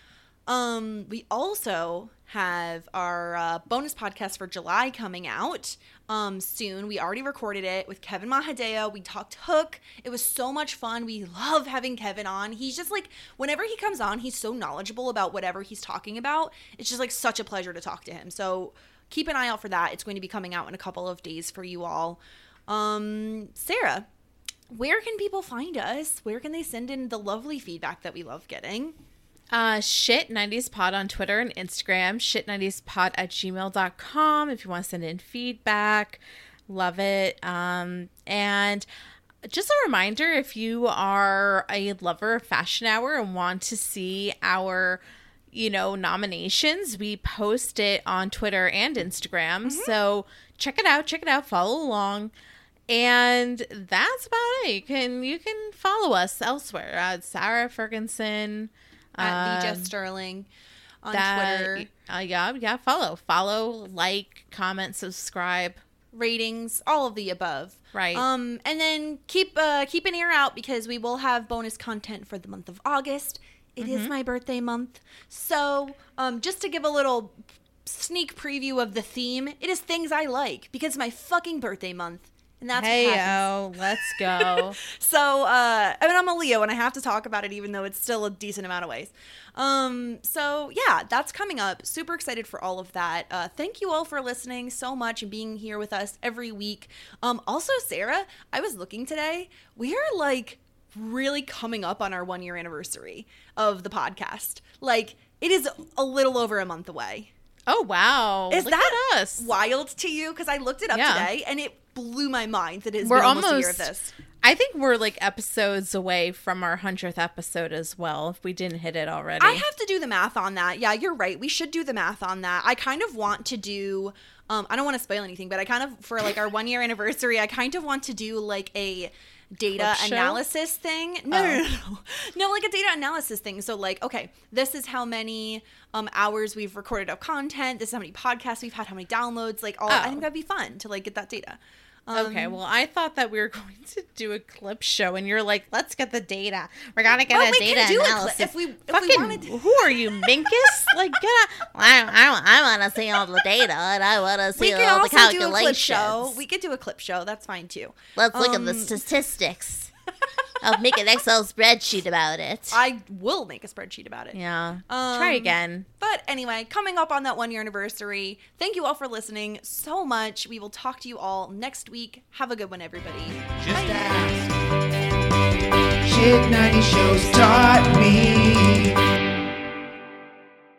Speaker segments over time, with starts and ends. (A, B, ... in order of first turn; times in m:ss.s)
0:00.5-0:24.1 A
0:24.7-0:29.0 A
0:29.5-0:38.9 B
0:39.4-0:52.3 B
0:49.6-0:50.0 A
0:52.9-0:59.9 B
0:59.2-1:00.5 A
1:01.0-1:01.9 A
1:01.1-1:05.8 B
1:06.1-1:23.5 A
1:07.9-1:08.2 B
1:13.8-1:14.1 B
1:22.7-1:24.8 B
1:24.0-1:47.3 A
1:47.7-1:49.5 B
1:48.5-1:54.1 A
1:50.9-1:51.3 B
1:53.0-1:59.6 B
1:59.4-2:22.6 A
2:09.8-2:10.4 B
2:11.3-2:11.6 B
2:19.9-2:20.2 B
2:22.1-2:36.4 B
2:27.3-2:29.7 A
2:34.6-2:39.0 A
2:38.2-2:39.9 B
2:40.6-2:42.8 B
2:42.7-2:44.4 A
2:44.3-2:45.9 B
2:44.9-2:54.2 A
2:53.6-2:54.5 C
2:56.0-2:59.0 C